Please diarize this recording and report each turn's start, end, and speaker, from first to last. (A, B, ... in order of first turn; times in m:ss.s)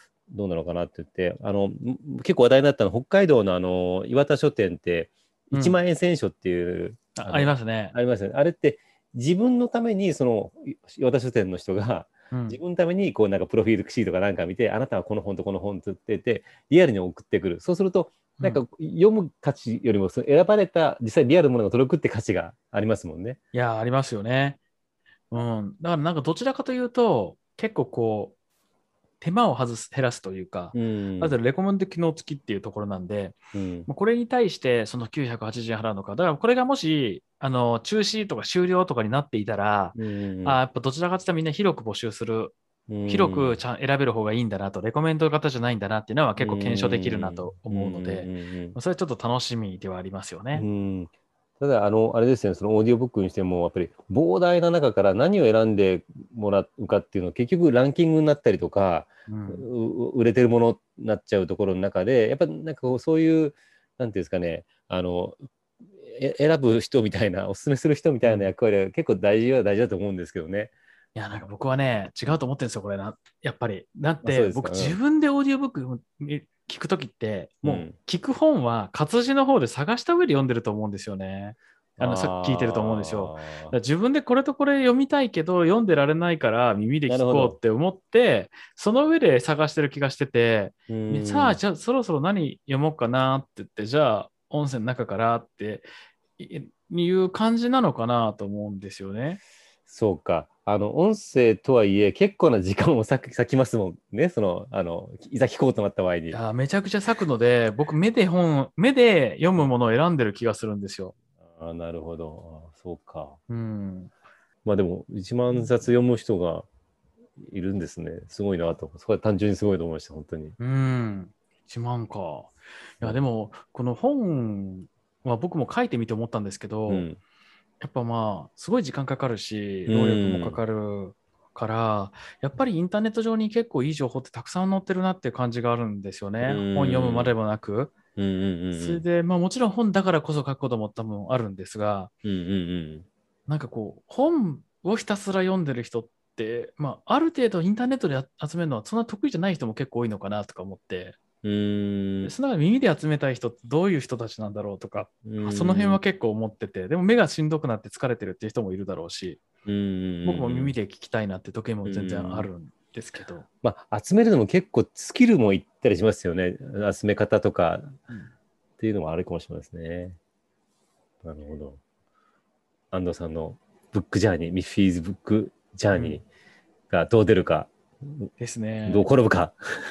0:00.3-0:23.4 A
0:05.5-0:05.8 B
0:07.2-0:07.9 B
0:12.3-0:12.6 B
0:23.5-0:24.6 B
0:25.3-0:28.3 B
0:29.2-0:50.6 B
0:30.7-0:31.4 A
0:33.5-0:33.9 A
0:39.9-0:40.6 A
0:42.9-0:43.6 A
0:46.4-0:48.8 A
0:50.5-1:05.4 A
0:59.3-0:59.7 B
1:06.0-1:10.7 A
1:08.2-1:08.5 B
1:11.1-1:39.4 B
1:14.2-1:15.0 A
1:17.6-1:17.9 A
1:22.0-1:23.7 A
1:27.1-1:27.6 A
1:30.9-1:31.6 A
1:39.9-1:46.4 A
1:46.3-1:51.1 B
1:51.4-1:53.4 A
1:53.5-1:54.1 B
1:54.6-1:56.7 A
1:57.4-2:00.6 A
2:00.6-2:07.1 B
2:06.9-2:07.2 A
2:07.8-2:17.9 B
2:09.9-2:10.6 A
2:16.4-2:17.3 A
2:18.2-2:19.0 A
2:18.7-2:22.1 B
2:22.2-2:23.0 A
2:23.5-2:31.2 B
2:31.4-2:32.3 A
2:32.2-2:39.4 B
2:35.2-2:36.0 A
2:39.6-2:40.7 A
2:40.2-2:43.4 B
2:41.8-2:42.5 A
2:43.6-2:48.0 A
2:48.8-2:50.2 A
2:51.2-2:51.8 A
2:52.9-2:56.2 A
2:55.9-2:56.2 B
2:56.9-2:58.3 A
2:58.4-2:59.1 B
2:58.9-2:59.6 A